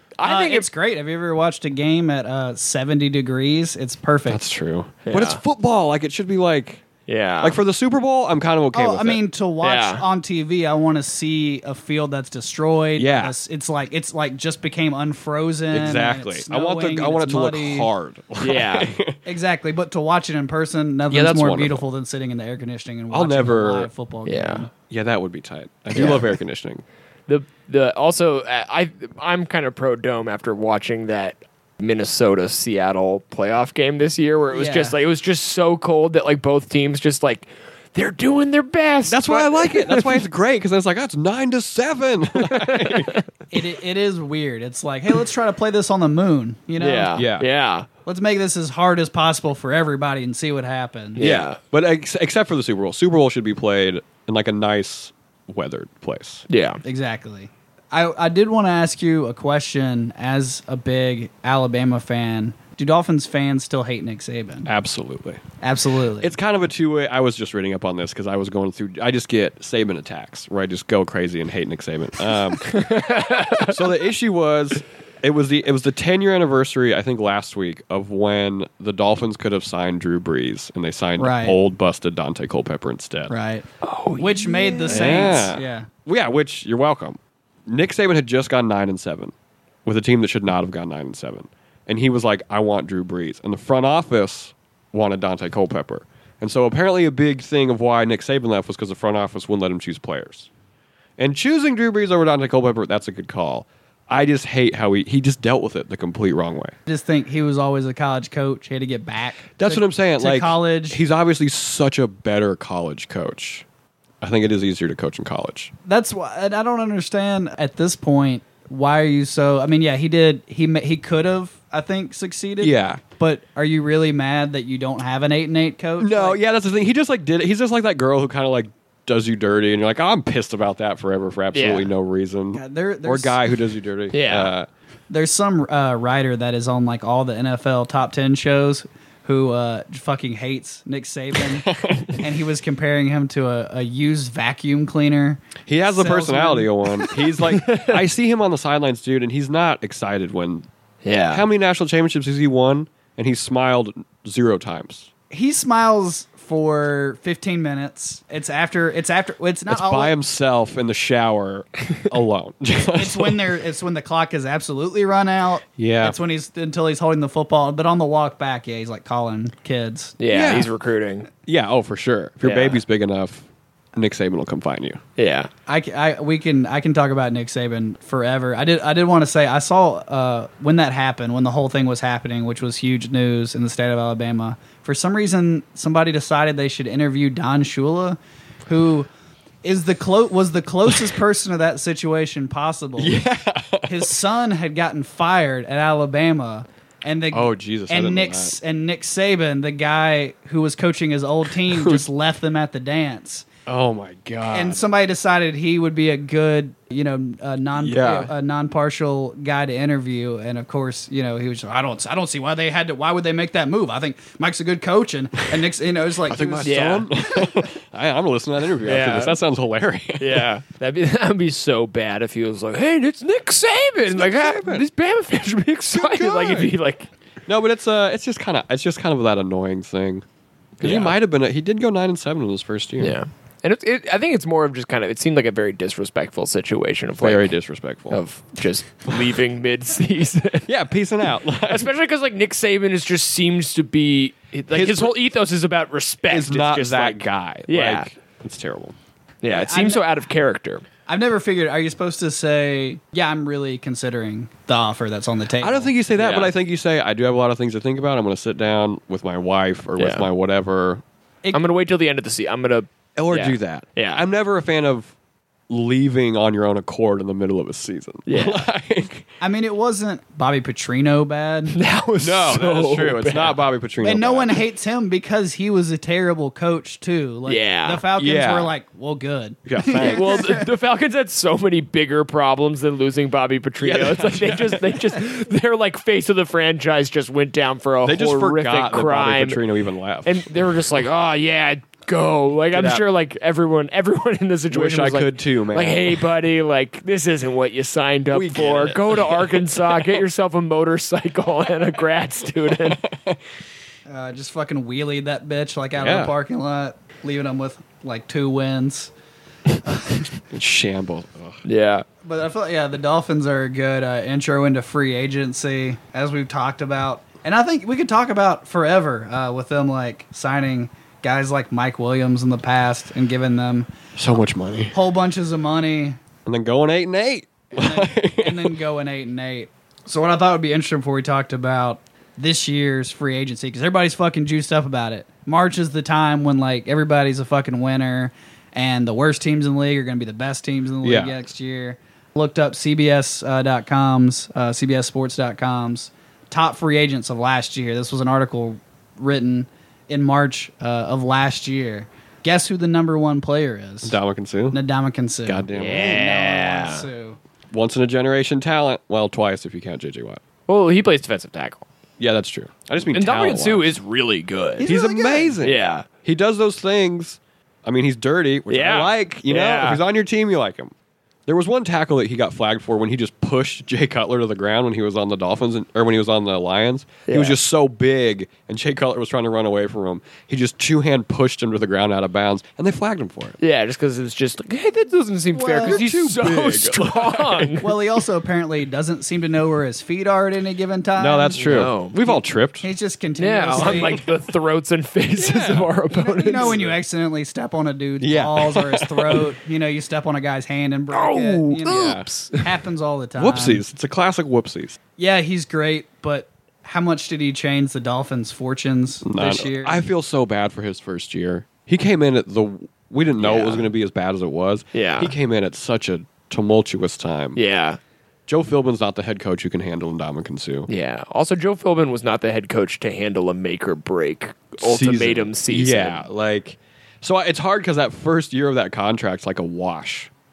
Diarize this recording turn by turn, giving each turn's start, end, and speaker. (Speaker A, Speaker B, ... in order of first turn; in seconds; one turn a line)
Speaker A: 0.2-0.7
Speaker B: 0.2-4.4
Speaker C: 4.3-6.8
Speaker A: 5.0-5.4
Speaker A: 7.1-7.6
Speaker C: 7.4-9.2
Speaker B: 8.7-17.9
Speaker A: 9.6-10.0
Speaker C: 13.0-13.3
Speaker C: 15.7-19.2
Speaker A: 18.4-18.9
Speaker B: 19.2-24.7
Speaker C: 21.1-21.8
Speaker C: 23.1-23.9
Speaker A: 24.2-24.6
Speaker C: 24.9-26.8
Speaker A: 25.9-26.4
Speaker A: 27.3-40.2
Speaker B: 34.5-35.0
Speaker C: 39.0-43.2
Speaker A: 42.4-43.2
Speaker B: 43.5-47.1
Speaker A: 46.8-47.9
Speaker C: 47.1-47.5
Speaker B: 48.0-51.2
Speaker A: 51.1-51.6
Speaker C: 51.2-56.4
Speaker A: 56.5-56.8
Speaker B: 56.8-64.7
Speaker C: 64.7-65.4
Speaker B: 65.6-66.3
Speaker C: 66.2-83.3
Speaker A: 72.7-73.8
Speaker B: 81.2-81.6
Speaker B: 83.3-85.9
Speaker A: 83.8-85.5
Speaker C: 84.9-89.3
Speaker C: 89.8-100.5
Speaker C: 101.2-106.7
Speaker B: 106.8-111.0
Speaker C: 109.6-113.6
Speaker C: 114.2-115.7
Speaker B: 115.8-126.4
Speaker C: 122.6-123.0
Speaker C: 126.0-134.7
Speaker A: 131.5-131.9
Speaker B: 132.5-133.4
Speaker A: 134.1-134.5
Speaker B: 135.1-146.7
Speaker C: 141.6-142.2
Speaker C: 145.7-150.7
Speaker A: 147.6-148.0
Speaker A: 151.0-151.4
Speaker C: 151.3-155.1
Speaker B: 155.3-160.1
Speaker C: 159.7-163.6
Speaker B: 162.9-170.2
Speaker C: 165.8-166.2
Speaker A: 170.2-171.3
Speaker C: 170.3-170.7
Speaker C: 171.5-175.0
Speaker A: 172.4-172.8
Speaker A: 175.2-175.5
Speaker B: 175.7-189.1
Speaker B: 189.6-193.2
Speaker C: 193.0-194.1
Speaker B: 193.8-203.4
Speaker C: 197.3-198.6
Speaker C: 201.6-202.0
Speaker C: 203.7-204.8
Speaker B: 204.5-216.8
Speaker C: 207.8-208.3
Speaker C: 216.3-220.5
Speaker A: 216.6-217.1
Speaker A: 218.8-219.4
Speaker A: 220.2-227.1
Speaker C: 224.1-224.8
Speaker C: 225.9-226.7
Speaker C: 227.5-230.2
Speaker C: 230.8-233.2
Speaker A: 230.8-231.1
Speaker A: 233.0-237.5
Speaker C: 237.2-238.2
Speaker A: 238.1-240.7
Speaker C: 240.7-241.9
Speaker A: 241.6-248.1
Speaker C: 244.7-245.1
Speaker C: 246.3-248.9
Speaker A: 249.4-250.8
Speaker B: 249.5-250.0
Speaker B: 251.1-255.9
Speaker C: 255.6-261.0
Speaker A: 256.1-256.5
Speaker A: 260.0-260.3
Speaker A: 261.5-264.2
Speaker C: 263.2-265.1
Speaker C: 265.7-269.3
Speaker A: 268.3-268.6
Speaker B: 269.4-271.8
Speaker A: 271.7-273.6
Speaker C: 272.2-274.6
Speaker B: 274.0-280.6
Speaker A: 277.4-278.1
Speaker C: 278.1-278.7
Speaker C: 279.6-280.6
Speaker A: 279.9-289.6
Speaker C: 283.8-285.1
Speaker C: 288.0-290.6
Speaker A: 290.2-303.0
Speaker C: 292.7-293.0
Speaker C: 294.7-296.2
Speaker C: 298.3-300.2
Speaker C: 302.8-303.4
Speaker B: 304.1-309.1
Speaker C: 305.9-306.3
Speaker B: 309.8-310.2
Speaker C: 310.5-311.6
Speaker A: 311.6-312.0
Speaker B: 312.2-323.9
Speaker C: 324.1-324.9
Speaker B: 324.9-326.2
Speaker C: 326.4-328.8
Speaker B: 327.7-354.2
Speaker C: 341.0-341.4
Speaker C: 354.0-354.8
Speaker B: 354.7-357.4
Speaker C: 355.4-356.2
Speaker A: 355.7-357.1
Speaker C: 357.7-360.4
Speaker A: 360.7-361.8
Speaker C: 362.2-363.9
Speaker A: 363.1-364.9
Speaker B: 364.8-365.6
Speaker C: 364.8-370.9
Speaker A: 365.6-366.1
Speaker A: 368.7-370.0
Speaker C: 371.5-383.6
Speaker A: 377.2-377.6
Speaker A: 383.6-388.0
Speaker B: 385.5-386.0
Speaker C: 385.8-387.8
Speaker B: 387.8-394.2
Speaker C: 391.2-392.9
Speaker A: 391.6-392.2
Speaker A: 393.4-396.9
Speaker C: 393.7-394.3
Speaker C: 395.4-395.9
Speaker B: 396.1-403.8
Speaker C: 396.5-396.9
Speaker C: 398.2-399.5
Speaker A: 401.1-402.6
Speaker C: 401.8-402.3
Speaker C: 403.4-405.0
Speaker B: 405.2-410.0
Speaker C: 409.2-417.6
Speaker A: 413.4-413.9
Speaker A: 414.9-415.3
Speaker A: 417.6-418.0
Speaker C: 418.5-420.9
Speaker A: 420.9-426.2
Speaker C: 424.8-430.3